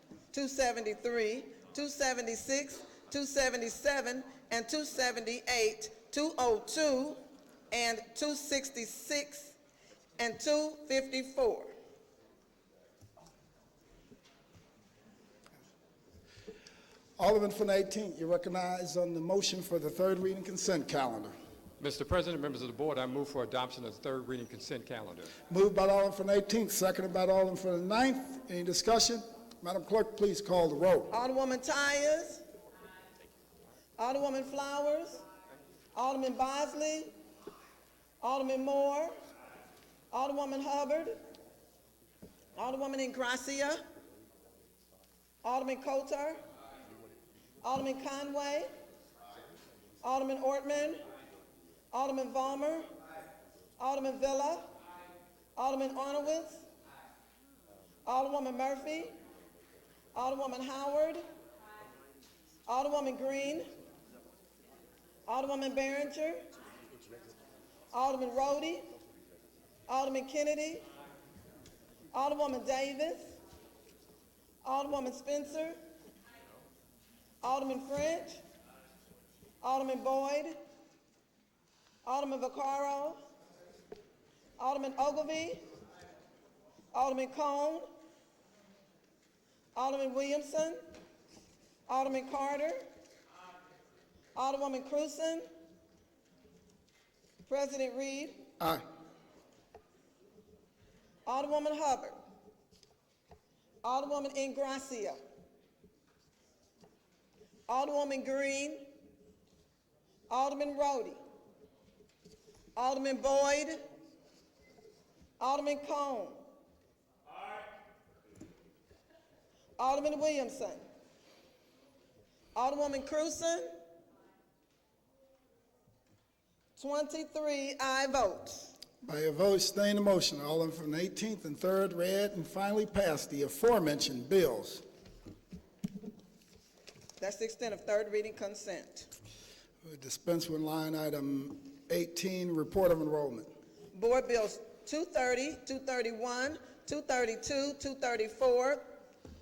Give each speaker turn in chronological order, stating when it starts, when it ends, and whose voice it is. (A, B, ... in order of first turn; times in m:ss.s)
0:00.3-0:07.2 A
0:07.7-0:09.6 A
0:10.2-0:11.7 A
0:17.2-0:21.3 B
0:21.8-0:25.3 C
0:25.4-0:31.1 B
0:31.1-0:32.4 A
0:34.0-0:35.2 A
0:35.9-0:37.1 A
0:38.2-0:39.1 A
0:40.1-0:41.2 A
0:42.6-0:43.8 A
0:45.4-0:46.4 A
0:47.6-0:48.7 A
0:50.0-0:51.0 A
0:51.9-0:52.9 A
0:53.8-0:54.7 A
0:55.5-0:56.6 A
0:58.0-0:59.1 A
1:00.1-1:01.2 A
1:02.7-1:03.7 A
1:05.2-1:06.4 A
1:07.9-1:08.9 A
1:09.9-1:10.8 A
1:12.1-1:13.4 A
1:14.6-1:15.8 A
1:17.4-1:18.4 A
1:19.6-1:20.6 A
1:22.0-1:23.2 A
1:24.6-1:25.6 A
1:26.9-1:27.9 A
1:29.7-1:30.8 A
1:31.9-1:32.8 A
1:34.3-1:35.5 A
1:37.5-1:38.4 A
1:41.2-1:42.2 A
1:43.8-1:45.2 A
1:47.7-1:48.8 A
1:50.3-1:51.2 A
1:52.8-1:53.8 A
1:55.4-1:56.4 A
1:59.8-2:00.8 A
2:02.5-2:03.7 A
2:06.8-2:08.7 A
2:09.0-2:14.8 B
2:17.2-2:19.1 A
2:19.8-2:23.5 B
2:23.9-2:28.8 A